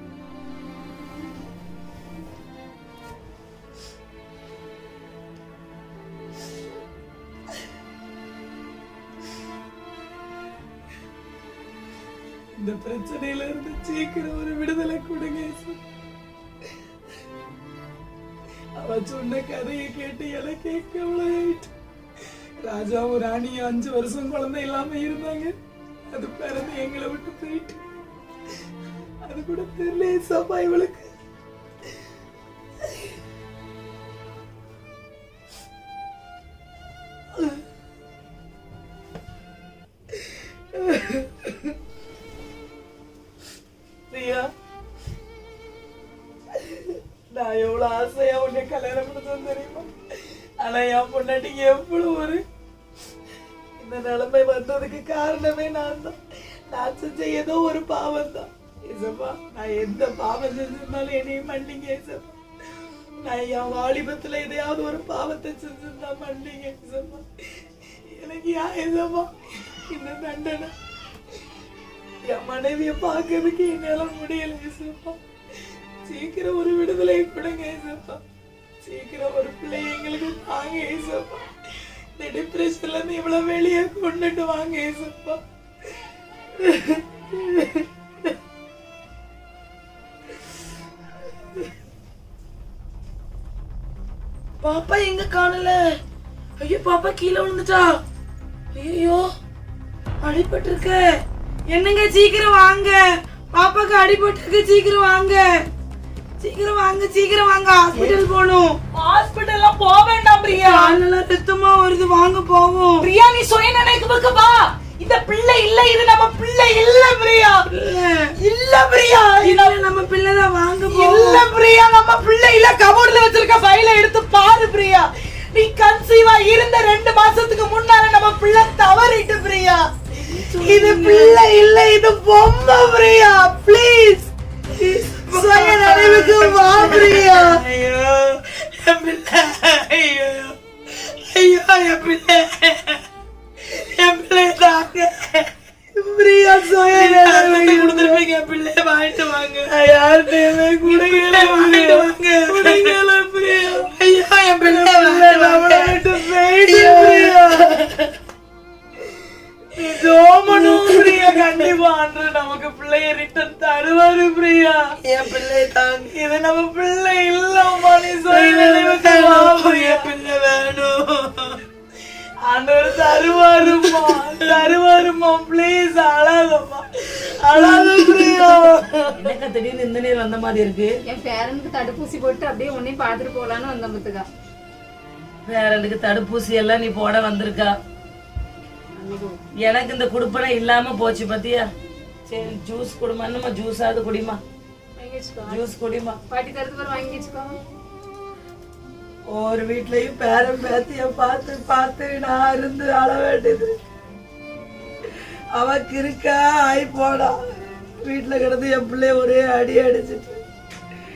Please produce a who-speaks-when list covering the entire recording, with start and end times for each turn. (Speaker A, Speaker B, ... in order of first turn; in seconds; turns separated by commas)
Speaker A: 12.6-15.8, Speaker A: 18.8-21.7, Speaker A: 22.6-25.5, Speaker A: 26.1-27.8, Speaker A: 29.2-31.1, Speaker A: 37.3-37.6, Speaker A: 40.7-41.7, Speaker A: 44.1-44.5, Speaker A: 46.5-49.9, Speaker A: 50.6-52.4, Speaker A: 53.8-56.2, Speaker A: 56.7-62.4, Speaker A: 63.2-67.2, Speaker A: 68.0-70.7, Speaker A: 72.2-75.2, Speaker A: 76.0-78.2, Speaker A: 78.8-81.5, Speaker A: 82.2-85.4, Speaker B: 86.7-87.0, Speaker B: 94.6-95.8, Speaker B: 96.6-98.0, Speaker B: 98.7-99.3, Speaker B: 100.2-101.0, Speaker B: 101.7-105.5, Speaker B: 106.4-108.8, Speaker A: 108.9-111.0, Speaker B: 110.5-113.1, Speaker A: 113.0-117.7, Speaker B: 117.7-118.3, Speaker A: 118.4-119.8, Speaker B: 119.4-121.4, Speaker A: 120.9-129.8, Speaker B: 130.3-131.4, Speaker A: 130.4-134.3, Speaker B: 134.7-143.0, Speaker A: 135.3-137.6, Speaker B: 143.6-145.5, Speaker A: 145.9-148.2, Speaker B: 146.6-152.9, Speaker A: 149.7-153.9, Speaker B: 153.7-158.1, Speaker A: 154.6-157.8, Speaker A: 159.7-164.8, Speaker B: 160.5-161.7, Speaker B: 165.0-166.1, Speaker A: 166.1-170.1, Speaker B: 168.3-171.6, Speaker A: 172.5-179.3, Speaker B: 173.2-174.8, Speaker B: 177.5-178.8, Speaker C: 179.2-180.9, Speaker D: 181.1-184.2, Speaker C: 185.4-187.7, Speaker D: 189.0-189.3, Speaker C: 189.6-191.7, Speaker C: 192.3-194.4, Speaker D: 195.0-195.6, Speaker C: 195.5-196.2, Speaker D: 196.3-197.6, Speaker B: 199.3-203.7, Speaker B: 205.1-207.3, Speaker B: 208.0-210.4